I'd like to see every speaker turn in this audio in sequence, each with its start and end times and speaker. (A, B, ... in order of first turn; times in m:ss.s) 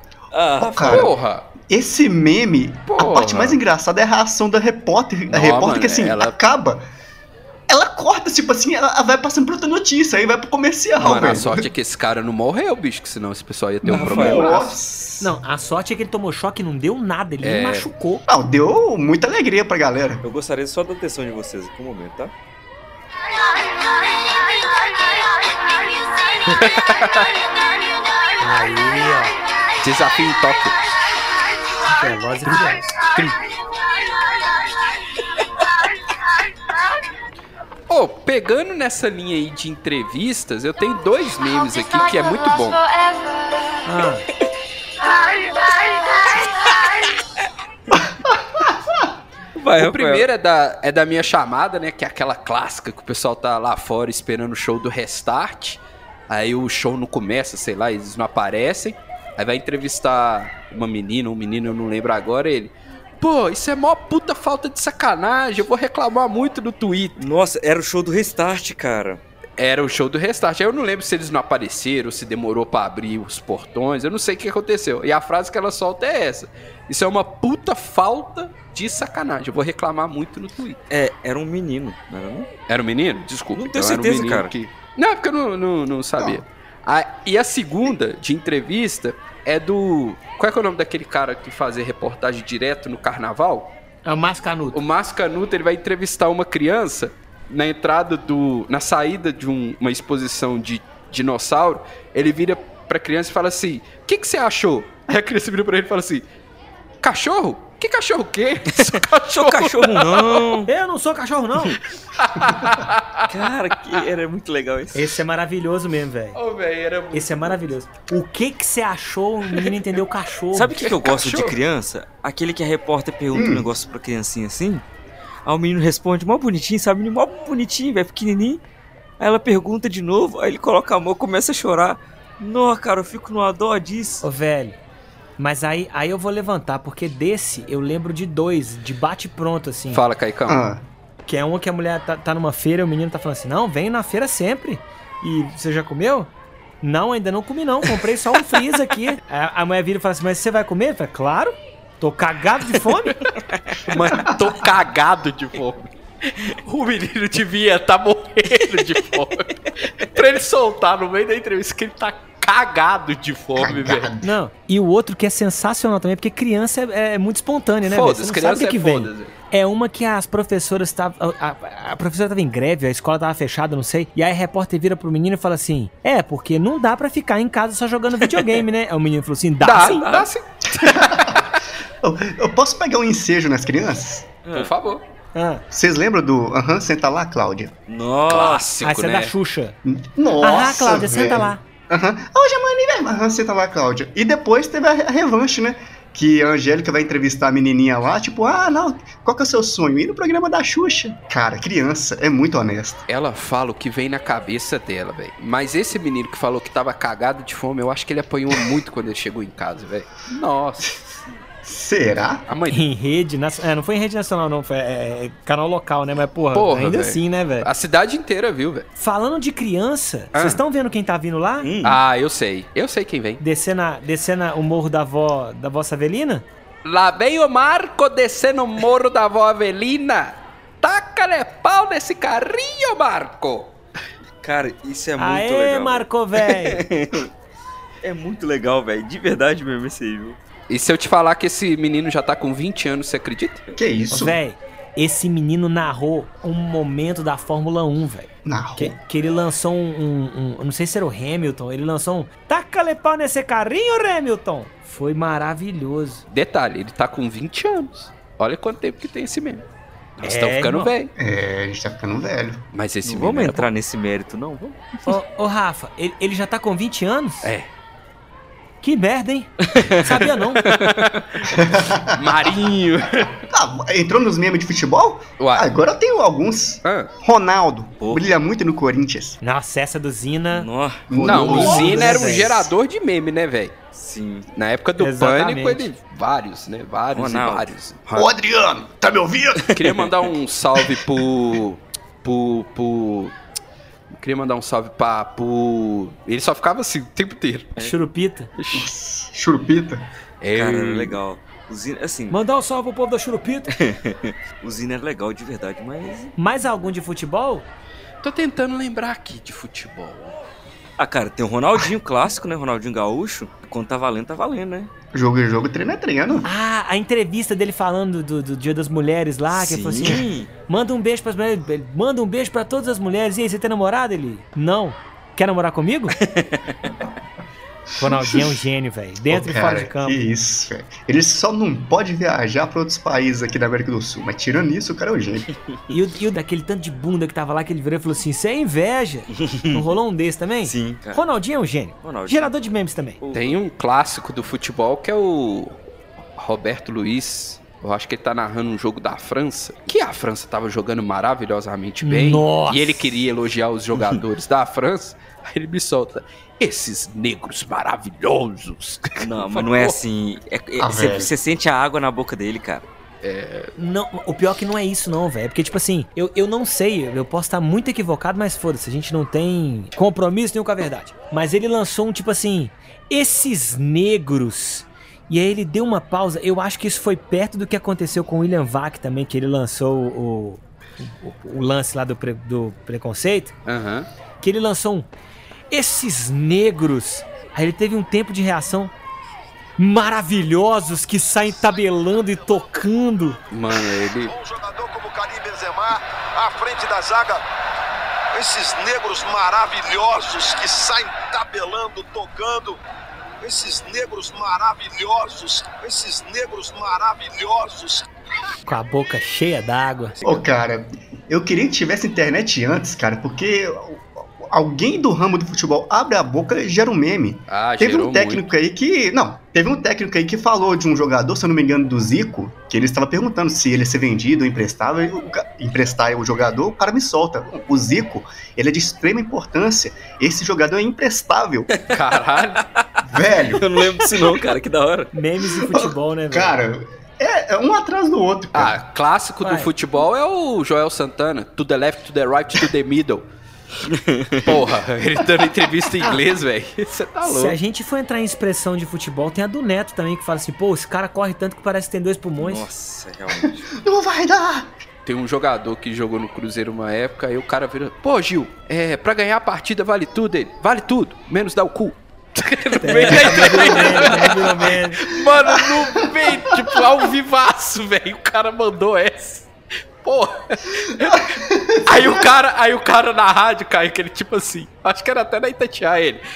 0:00.3-0:01.1 A
0:00.6-0:06.8 B
0:00.8-0:01.5 C
0:02.9-0:03.6 C
0:05.3-0:06.4 C
0:07.7-0:11.6 B
0:11.0-0:14.8 C
0:13.8-0:15.3 B
0:13.9-0:14.6 A
0:15.2-0:18.2 D
0:17.4-0:17.9 C
0:18.3-0:20.2 B
0:20.2-0:22.3 A
0:26.5-0:27.3 C
0:28.4-0:29.4 D
0:29.8-0:30.9 C
0:31.9-0:32.9 D
0:32.5-0:33.4 C
0:37.9-0:42.9 C
0:43.8-0:44.2 D
0:49.6-0:50.3 A
0:49.8-1:07.2 C
1:07.2-1:09.2 A
1:09.6-1:20.8 C
1:20.9-1:22.5 A
1:22.7-1:33.7 C
1:23.6-1:24.5 A
1:34.0-1:34.8 D
1:34.7-1:46.3 C
1:47.0-1:50.5 C
1:49.3-1:50.7 A
1:50.7-1:51.8 D
1:52.2-1:53.3 C
1:53.3-1:55.1 A
1:54.9-1:56.4 D
1:56.4-1:57.7 C
1:57.1-2:00.8 D
2:00.5-2:04.8 A
2:00.8-2:01.6 C
2:03.3-2:03.7 B
2:05.5-2:08.6 A
2:09.2-2:14.2 A
2:14.2-2:14.8 D
2:15.4-2:20.0 D
2:19.9-2:20.6 C
2:20.5-2:20.8 B
2:21.3-2:26.3 D
2:26.8-2:33.2 D
2:33.9-2:44.1 C
2:43.6-2:44.3 B
2:44.2-3:00.1 D
2:47.8-2:49.3 C
2:58.3-2:58.6 A
2:59.6-3:01.4 C
3:00.8-3:01.4 B
3:02.0-3:04.3 B
3:04.4-3:04.7 A
3:04.5-3:05.0 C
3:05.4-3:05.6 D
3:05.7-3:07.7 B
3:07.9-3:08.6 A
3:08.3-3:09.3 C
3:08.8-3:09.8 D
3:09.9-3:23.0 B
3:10.4-3:11.6 D
3:23.1-3:30.9 C
3:31.6-3:32.4 B
3:32.5-3:32.8 C
3:32.7-3:37.7 D
3:36.5-3:38.9 C
3:39.0-3:41.7 D
3:40.3-3:40.6 C
3:41.6-3:42.0 A
3:41.8-3:43.4 C
3:43.4-3:46.5 D
3:46.8-3:53.8 C
3:54.4-3:57.3 A
3:55.2-3:56.8 D
3:58.0-4:00.4 A
4:00.7-4:03.6 C
4:03.8-4:04.4 B
4:04.1-4:16.2 D
4:08.4-4:09.0 B
4:16.3-4:19.6 C
4:20.2-4:21.1 C
4:20.2-4:20.9 D
4:21.2-4:22.6 B
4:22.7-4:23.7 C
4:23.0-4:25.1 A
4:25.1-4:27.5 D
4:27.4-4:27.7 C
4:28.8-4:30.6 D
4:29.6-4:30.9 A
4:30.8-4:31.4 C
4:31.5-4:32.2 B
4:32.2-4:33.4 C
4:33.5-4:39.4 B
4:35.4-4:35.7 C
4:36.8-4:37.1 C
4:38.0-4:38.3 A
4:39.4-4:40.7 D
4:40.5-4:42.3 A
4:41.1-4:42.6 B
4:41.2-4:43.8 C
4:41.3-4:42.6 D
4:43.9-4:44.5 A
4:44.5-4:48.3 C
4:45.0-4:45.9 D
4:47.1-4:47.7 A
4:48.1-4:49.7 B
4:49.7-4:50.1 A
4:49.7-4:53.3 C
4:54.1-4:57.8 C
4:57.8-4:58.5 D
4:58.6-4:58.9 C
4:58.7-5:00.0 B
5:00.4-5:01.2 C
5:00.5-5:02.4 A
5:02.3-5:03.7 D
5:03.7-5:06.3 A
5:06.4-5:07.7 D
5:08.2-5:10.4 C
5:11.0-5:14.9 A
5:15.1-5:16.5 B
5:16.4-5:26.2 D
5:19.5-5:20.5 A
5:26.2-5:26.9 A
5:28.0-5:30.2 D
5:28.0-5:28.5 B
5:29.3-5:35.5 B
5:35.9-5:43.2 D
5:39.3-5:39.9 A
5:40.6-5:41.2 A
5:42.0-5:42.5 A
5:43.2-5:43.6 A
5:43.3-5:45.8 C
5:46.4-6:00.0 C
5:52.0-5:53.0 D
5:54.0-5:54.2 A
5:59.2-6:02.9 A
6:00.8-6:01.4 B
6:03.2-6:03.7 C
6:03.8-6:23.6 D
6:23.7-6:24.1 C
6:24.4-6:25.1 D
6:25.7-6:28.9 D
6:29.8-6:33.4 D
6:33.5-6:34.3 C
6:34.2-6:37.4 E
6:38.3-6:42.8 E
6:43.4-6:48.0 E
6:48.7-6:50.2 D
6:50.2-7:11.7 B
6:57.5-6:58.5 C
7:11.9-7:12.6 C
7:13.0-7:14.0 B
7:13.6-7:15.1 A
7:15.1-7:16.6 D
7:15.7-7:18.8 B
7:18.5-7:23.3 C
7:19.4-7:19.7 D
7:23.8-7:24.6 A
7:24.4-7:27.6 C
7:27.2-7:32.7 D
7:32.4-7:33.7 A
7:33.8-7:34.7 B
7:35.0-7:49.5 C
7:42.8-7:45.0 D
7:43.0-7:44.1 A
7:50.0-7:51.3 C
7:51.0-7:52.2 B
7:51.8-7:56.2 C